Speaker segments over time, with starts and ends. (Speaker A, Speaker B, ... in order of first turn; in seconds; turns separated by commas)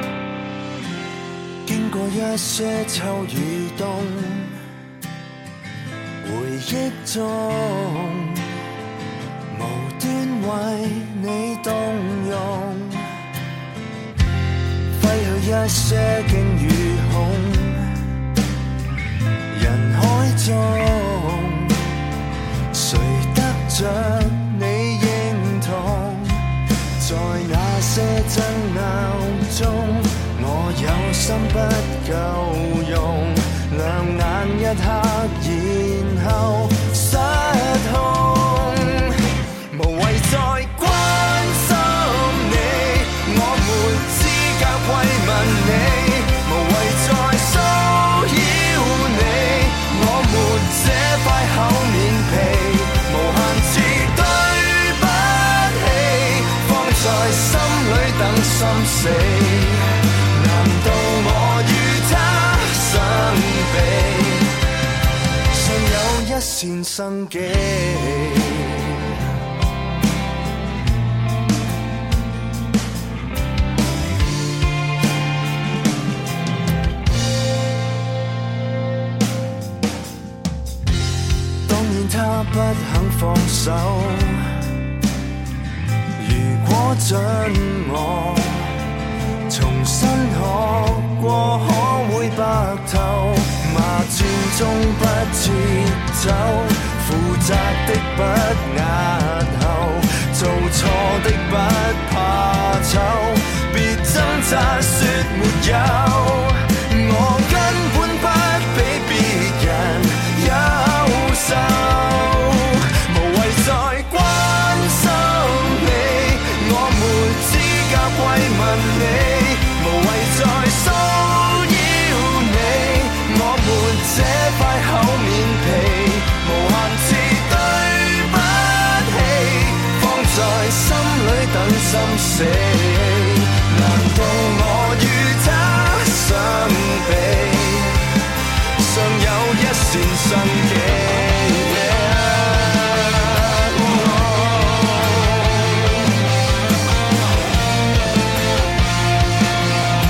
Speaker A: 1.6-4.5, Speaker A: 6.2-8.4, Speaker A: 9.5-13.1, Speaker A: 14.9-17.9, Speaker A: 19.5-21.8, Speaker A: 22.7-26.5, Speaker A: 27.0-39.1, Speaker A: 39.7-64.5, Speaker A: 65.5-69.1, Speaker A: 81.7-84.5, Speaker A: 86.2-88.8, Speaker A: 89.5-138.0, Speaker A: 138.8-146.0